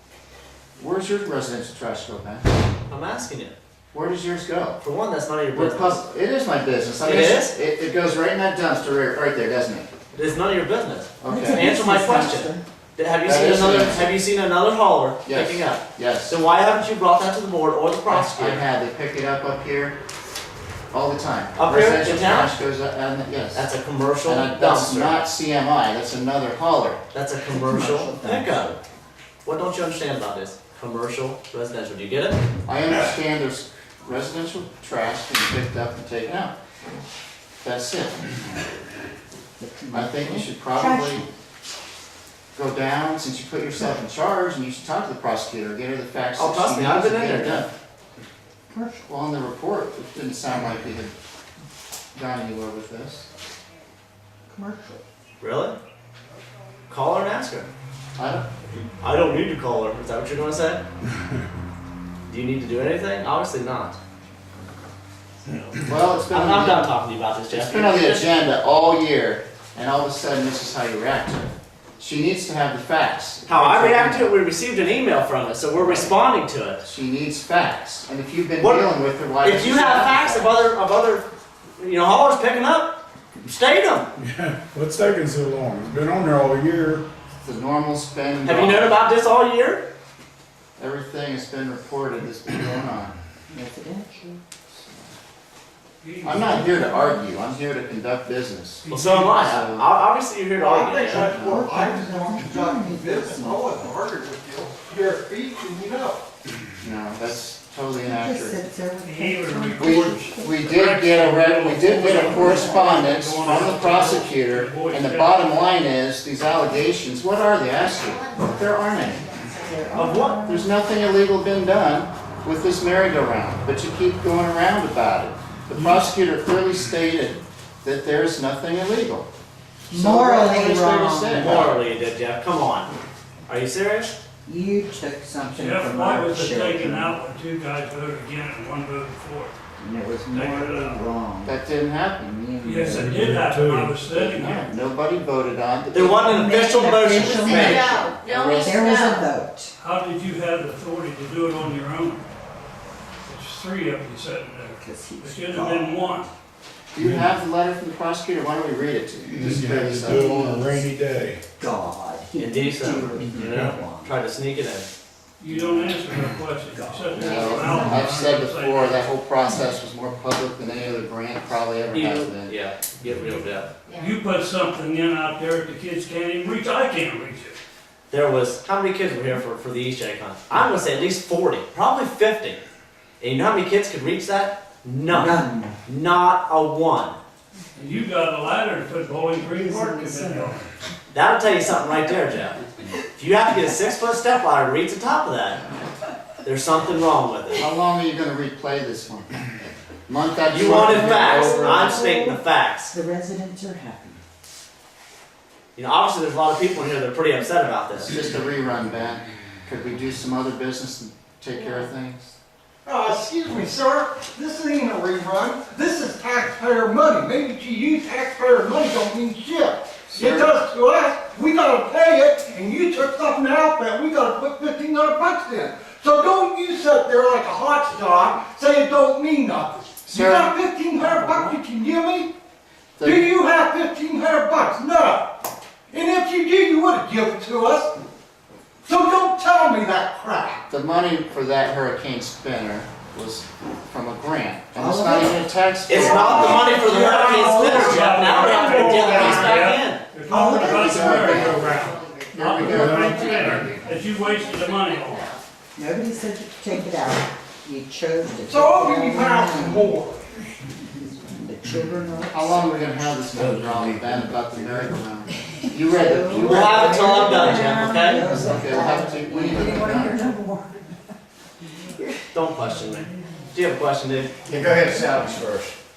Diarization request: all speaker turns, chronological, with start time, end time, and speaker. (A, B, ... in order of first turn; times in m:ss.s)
0:00.8-0:02.4 A
0:02.9-0:03.5 B
0:03.9-0:04.8 A
0:04.8-0:06.0 B
0:05.5-0:09.9 A
0:07.0-0:07.5 B
0:10.1-0:18.6 B
0:11.2-0:11.7 A
0:11.2-0:12.6 C
0:13.2-0:14.2 A
0:15.2-0:16.4 A
0:18.1-0:19.9 A
0:20.9-0:23.7 A
0:21.6-0:22.6 B
0:23.5-0:25.3 B
0:24.2-0:27.0 A
0:27.1-0:28.7 B
0:27.4-0:28.8 C
0:29.4-0:32.4 B
0:32.6-0:36.5 A
0:37.6-0:38.3 A
0:39.6-0:41.3 C
0:39.9-0:41.3 A
0:42.5-0:47.7 A
0:46.4-0:47.7 B
0:48.7-0:49.0 C
0:49.1-0:51.1 A
0:52.1-0:53.3 A
0:54.5-0:55.0 C
0:55.4-0:55.8 B
0:56.9-0:57.7 B
0:58.2-0:58.5 A
0:59.0-1:00.8 B
1:02.3-1:04.0 B
1:05.4-1:08.3 B
1:05.8-1:06.9 A
1:07.5-1:14.4 A
1:13.4-1:16.8 B
1:15.8-1:16.2 A
1:16.8-1:20.6 A
1:18.6-1:18.9 B
1:19.4-1:21.3 B
1:21.8-1:24.1 B
1:24.2-1:27.0 D
1:27.4-1:29.0 A
1:28.4-1:29.8 B
1:30.8-1:33.1 A
1:33.5-1:34.4 C
1:34.8-1:35.1 A
1:36.0-1:37.1 E
1:36.2-1:39.9 A
1:38.8-1:39.4 E
1:38.9-1:41.3 B
1:40.5-1:46.2 F
1:41.1-1:43.9 C
1:41.2-1:41.6 A
1:46.8-1:48.6 A
1:48.0-1:50.4 C
1:49.0-1:55.7 E
1:49.8-1:59.3 A
1:52.0-1:52.9 C
1:57.8-2:00.1 G
1:59.6-2:00.7 C
1:59.9-2:00.4 B
2:00.4-2:09.3 A
2:09.9-2:11.7 C
2:09.9-2:11.8 A
2:11.3-2:12.9 B
2:13.5-2:14.1 B
2:14.4-2:17.2 C
2:15.5-2:19.5 E
2:19.8-2:21.6 C
2:20.3-2:21.0 E
2:21.4-2:22.3 A
2:22.2-2:23.4 C
2:22.6-2:24.7 E
2:22.9-2:24.0 D
2:24.0-2:26.4 A
2:25.9-2:27.9 B
2:26.0-2:29.7 C
2:27.1-2:29.3 G
2:28.1-2:29.0 A
2:29.8-2:32.2 E
2:33.2-2:36.3 E
2:34.8-2:35.8 C
2:36.9-2:40.8 A
2:37.0-2:37.3 D
2:39.2-2:41.4 D
2:41.6-2:44.2 C
2:42.4-2:44.9 B
2:45.4-2:49.1 E
2:45.5-2:45.8 A
2:46.6-2:48.1 C
2:47.1-2:52.6 A
2:51.9-2:53.7 B
2:53.8-2:54.2 G
2:54.0-2:57.6 E
2:58.1-3:02.6 B
3:03.2-3:07.2 B
3:05.1-3:05.8 C
3:07.7-3:10.7 E
3:09.4-3:10.6 C
3:11.1-3:12.6 B
3:13.2-3:15.6 B
3:16.4-3:17.6 B
3:17.6-3:19.4 A
3:20.1-3:22.1 A
3:20.5-3:22.9 B
3:20.8-3:22.4 C
3:22.9-3:24.2 C
3:25.8-3:28.2 B
3:28.0-3:32.3 A
3:32.8-3:52.3 F
3:40.1-3:40.5 A
3:50.1-3:50.5 A
3:51.0-3:51.6 E
3:53.0-3:53.3 A
3:53.0-3:55.3 F
3:55.9-3:57.9 F
3:58.8-4:00.6 F
4:00.7-4:06.8 A
4:04.8-4:10.0 B
4:06.0-4:07.1 G
4:06.8-4:08.2 F
4:07.0-4:15.3 E
4:08.8-4:09.6 G
4:10.3-4:13.6 A
4:10.3-4:10.6 F
4:10.6-4:15.4 G
4:12.6-4:13.8 D
4:15.7-4:19.9 C
4:18.4-4:20.3 F
4:21.0-4:22.8 C
4:22.3-4:27.5 A
4:25.7-4:30.9 C
4:26.3-4:28.2 B
4:27.3-4:28.2 G
4:28.1-4:30.4 A
4:29.6-4:30.4 G
4:32.3-4:34.4 B
4:34.4-4:35.7 G